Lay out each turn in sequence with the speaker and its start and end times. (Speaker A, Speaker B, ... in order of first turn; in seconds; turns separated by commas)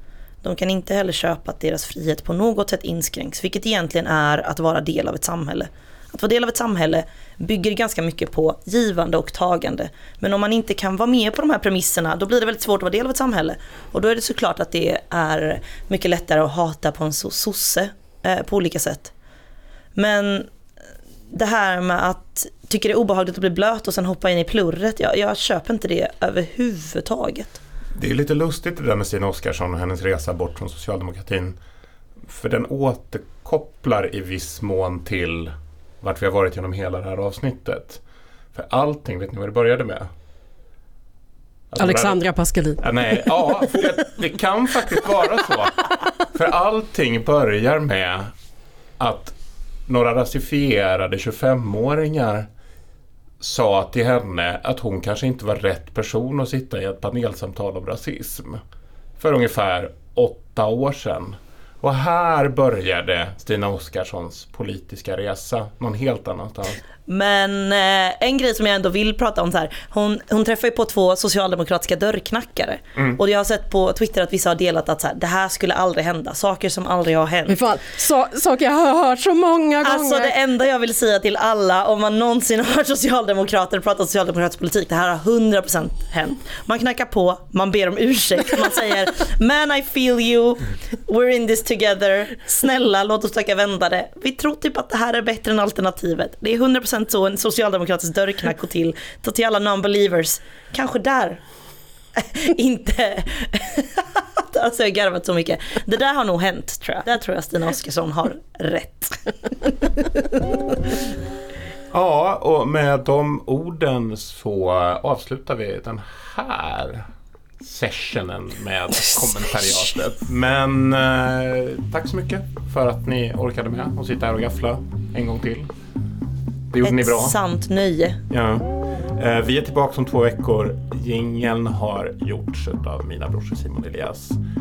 Speaker A: 0.4-19.1, Speaker A: 19.9-20.5, Speaker A: 21.3-27.6, Speaker B: 27.9-31.6, Speaker B: 32.2-38.0, Speaker B: 38.5-40.1, Speaker B: 41.7-42.2, Speaker C: 41.8-43.8, Speaker B: 42.8-48.3, Speaker B: 49.0-49.3, Speaker B: 49.9-52.5, Speaker B: 53.4-58.6, Speaker B: 59.2-66.8, Speaker A: 67.1-77.6, Speaker C: 77.5-80.3, Speaker A: 79.8-101.4, Speaker A: 102.1-109.9, Speaker B: 111.9-117.0, Speaker B: 117.6-125.7, Speaker B: 126.7-127.3, Speaker A: 126.8-128.2, Speaker B: 128.3-134.4